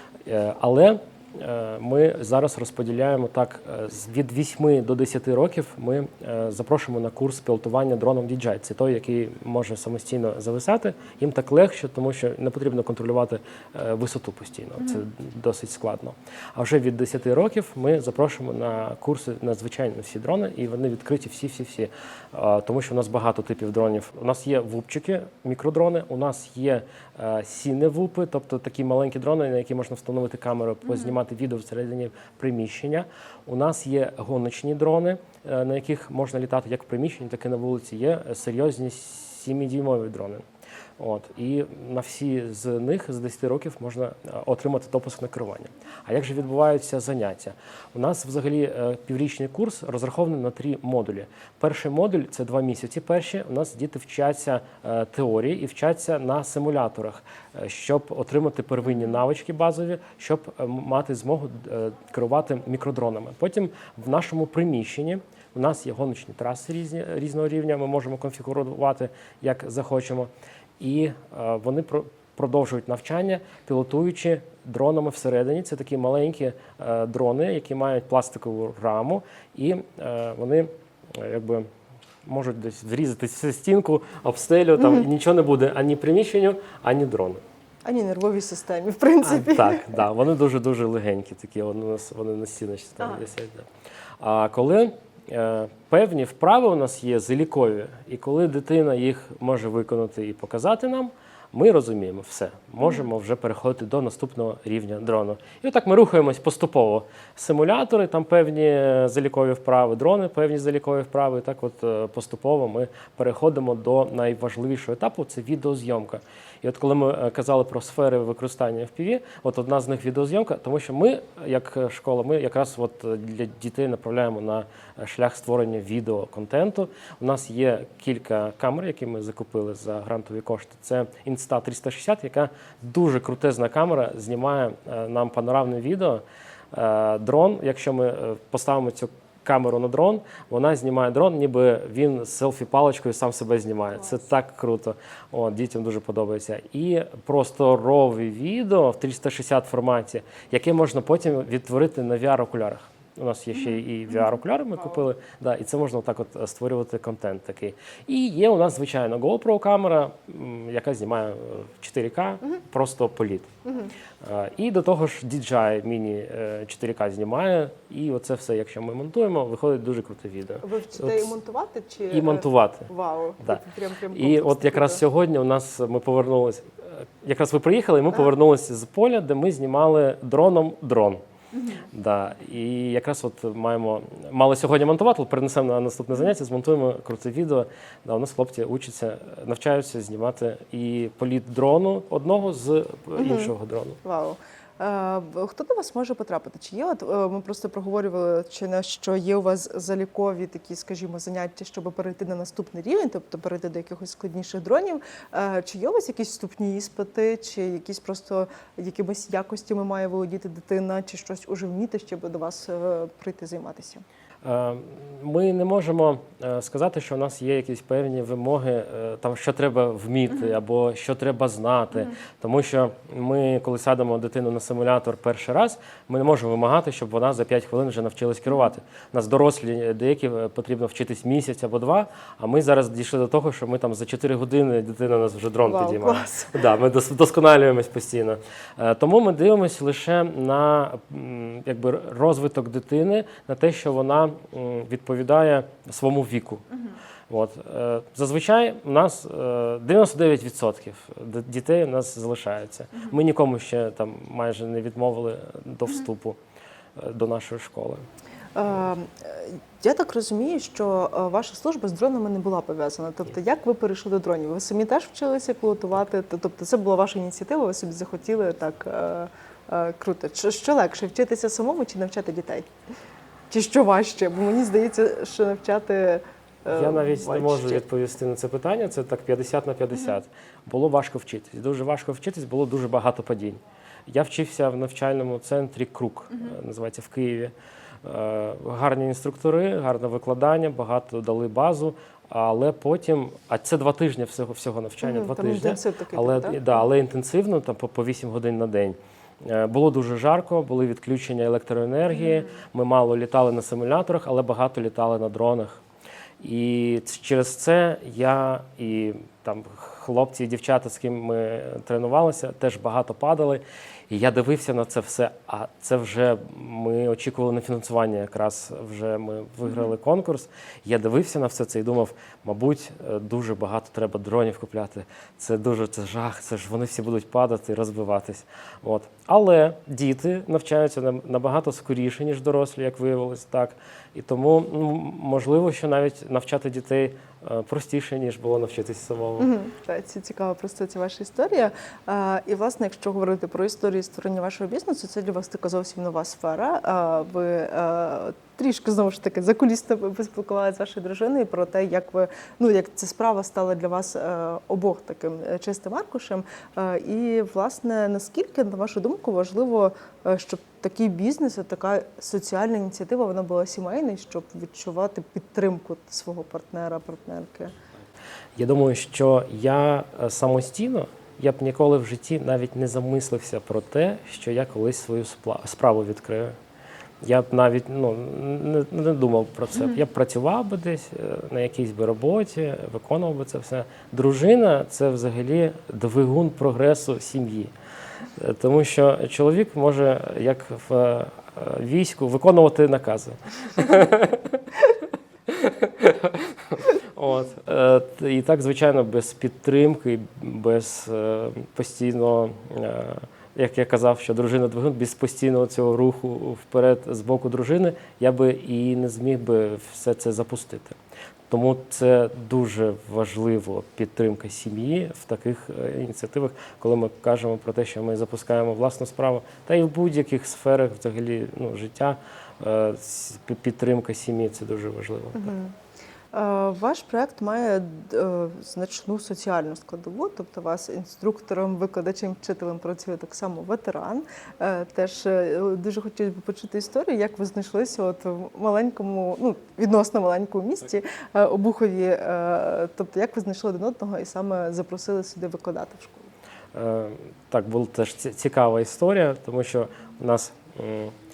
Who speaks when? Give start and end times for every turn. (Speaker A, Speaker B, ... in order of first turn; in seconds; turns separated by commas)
Speaker A: 0.3-40.4, Speaker A: 41.0-81.7, Speaker A: 82.2-87.4, Speaker B: 87.8-90.0, Speaker A: 89.2-93.7, Speaker A: 94.2-163.5, Speaker A: 164.2-171.3, Speaker B: 170.6-175.0, Speaker A: 172.1-172.9, Speaker A: 174.1-181.2, Speaker B: 181.5-181.8, Speaker A: 181.9-194.0, Speaker B: 193.2-193.5, Speaker B: 194.0-214.0, Speaker A: 214.4-256.4, Speaker B: 235.6-236.6, Speaker A: 257.0-258.1, Speaker B: 258.6-272.7, Speaker B: 273.5-277.8, Speaker A: 276.7-287.5, Speaker A: 288.0-305.8, Speaker B: 295.0-296.7, Speaker A: 306.4-339.5, Speaker B: 339.4-367.7, Speaker A: 368.6-376.6, Speaker A: 377.2-387.7, Speaker A: 388.4-394.6, Speaker A: 395.5-411.0, Speaker A: 411.5-425.6, Speaker B: 425.4-425.8, Speaker B: 426.3-446.3, Speaker A: 446.7-451.1